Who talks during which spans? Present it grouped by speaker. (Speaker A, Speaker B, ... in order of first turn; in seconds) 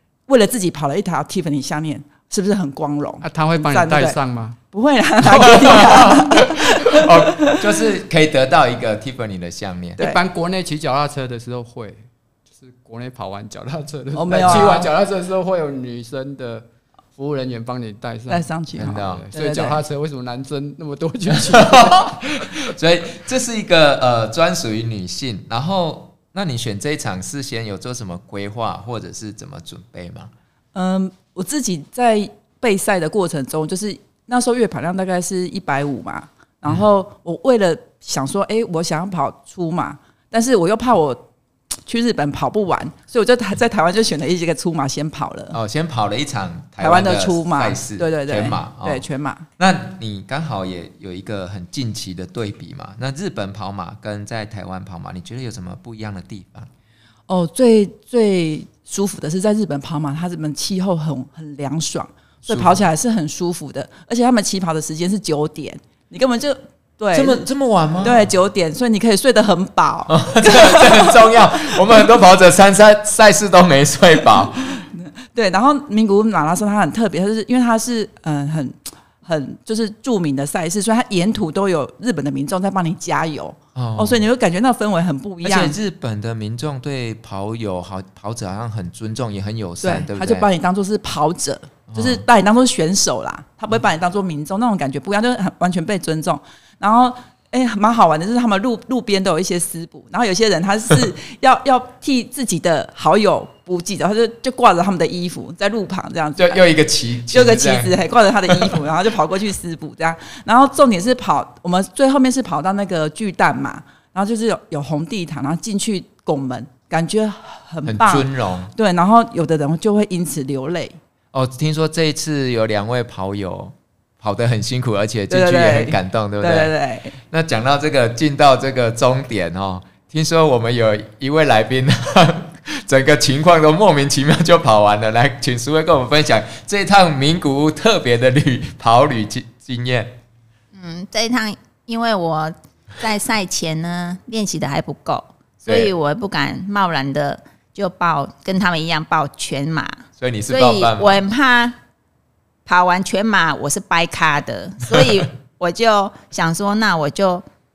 Speaker A: 0.3-4.2, 4.7-7.6, 10.0-10.2, 14.1-14.8, 18.3-19.8, 30.7-41.2, 41.9-45.6, 46.8-49.5, 57.3-67.5, 68.0-71.1, 74.9-85.8, 89.8-106.6, 107.3-121.0, 125.3-127.2
Speaker B: 3.2-4.6, 10.0-16.6, 17.2-22.1
Speaker C: 5.3-10.0, 14.4-14.9, 18.7-19.3, 21.3-30.3, 45.5-49.0, 49.6-56.7, 62.4-62.9, 67.1-68.3, 70.1-74.8, 83.8-84.2, 85.4-90.5, 91.9-92.2, 106.4-108.0, 108.5-108.7, 117.8-118.7, 121.3-126.7, 127.3-140.2, 145.7-145.9, 150.2-151.2
Speaker D: 140.7-151.8, 152.7-157.4